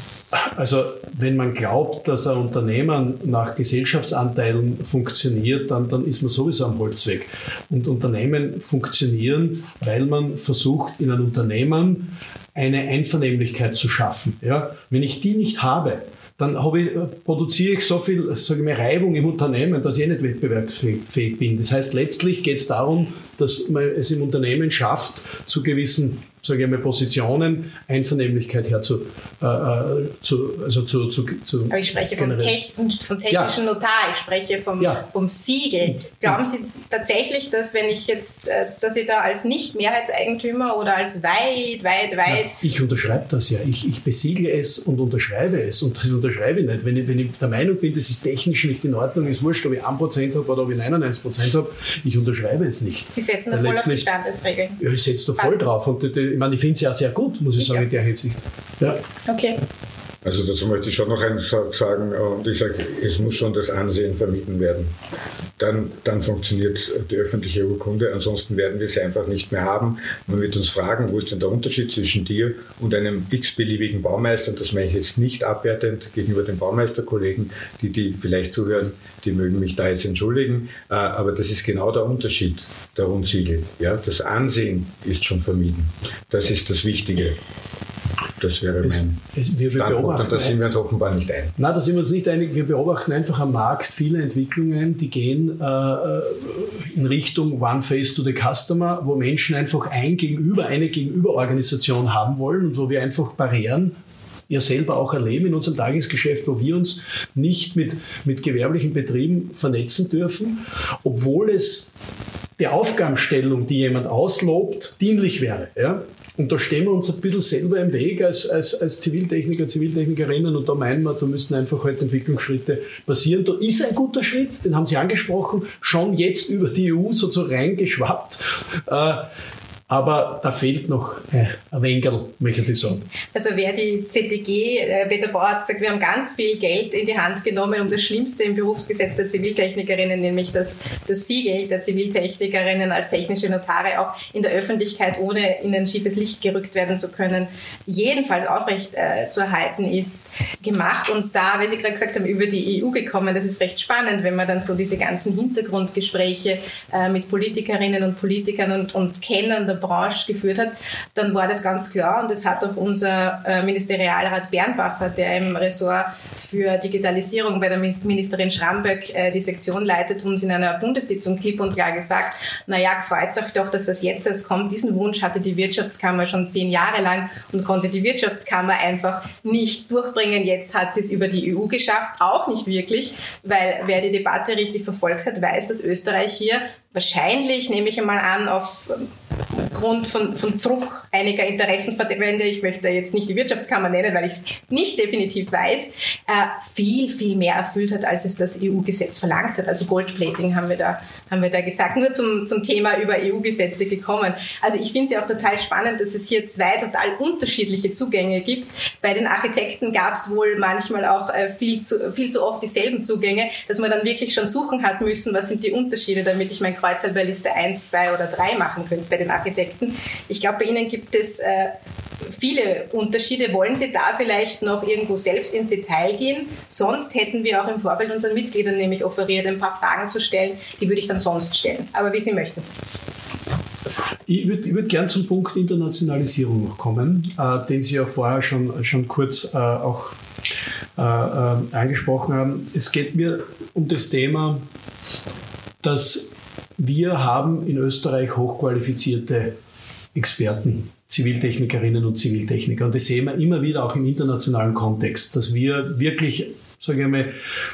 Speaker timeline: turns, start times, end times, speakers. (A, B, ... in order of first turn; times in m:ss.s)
0:00.3-0:32.6 A
0:31.7-0:42.6 B
0:33.3-0:33.6 A
0:34.8-0:35.0 A
0:42.3-0:54.0 A
0:53.1-0:54.8 B
0:54.8-0:59.0 A
0:57.6-0:57.8 B
0:59.2-0:59.6 B
1:00.2-1:04.9 C
1:05.6-1:27.4 C
1:28.4-1:29.2 C
1:28.8-1:30.6 A
1:29.7-1:31.6 C
1:31.6-1:43.9 A
1:44.5-1:51.9 A
1:52.6-2:09.3 A
2:09.9-2:13.0 A
2:13.3-3:09.1 B
3:09.7-3:41.7 B
3:42.3-3:52.6 B
3:54.3-4:00.2 A
4:01.0-4:04.6 A
4:05.8-4:09.6 A
4:10.1-4:17.3 A